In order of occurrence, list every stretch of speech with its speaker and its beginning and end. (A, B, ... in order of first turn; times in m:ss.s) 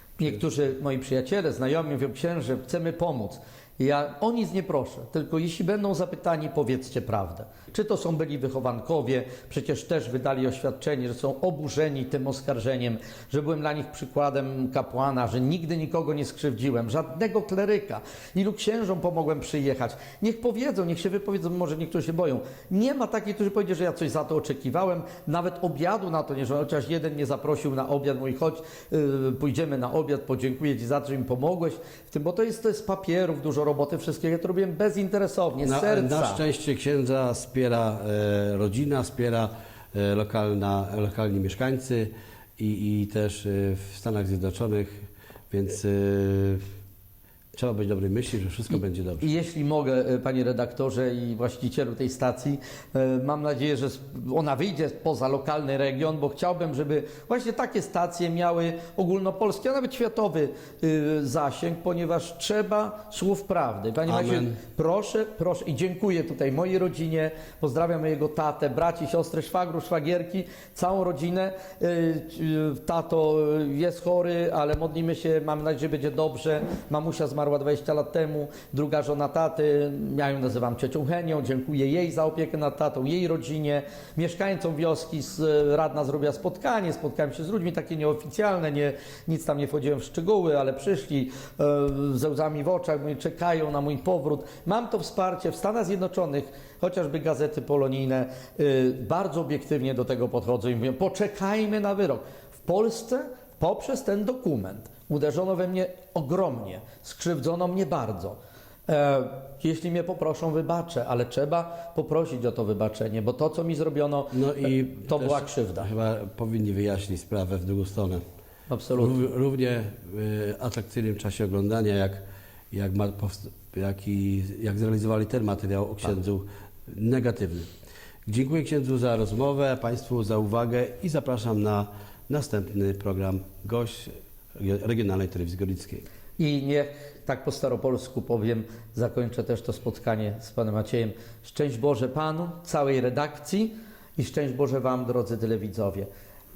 0:00.2-0:36.4 A
0:35.6-0:46.6 B
0:47.5-0:49.3 B
0:49.2-1:48.4 A
1:04.0-1:04.6 B
1:48.9-1:55.9 A
1:54.3-1:58.2 B
1:58.7-1:59.2 A
1:59.0-2:02.2 B
2:02.7-2:07.7 B
2:08.3-2:16.0 B
2:16.4-2:26.1 A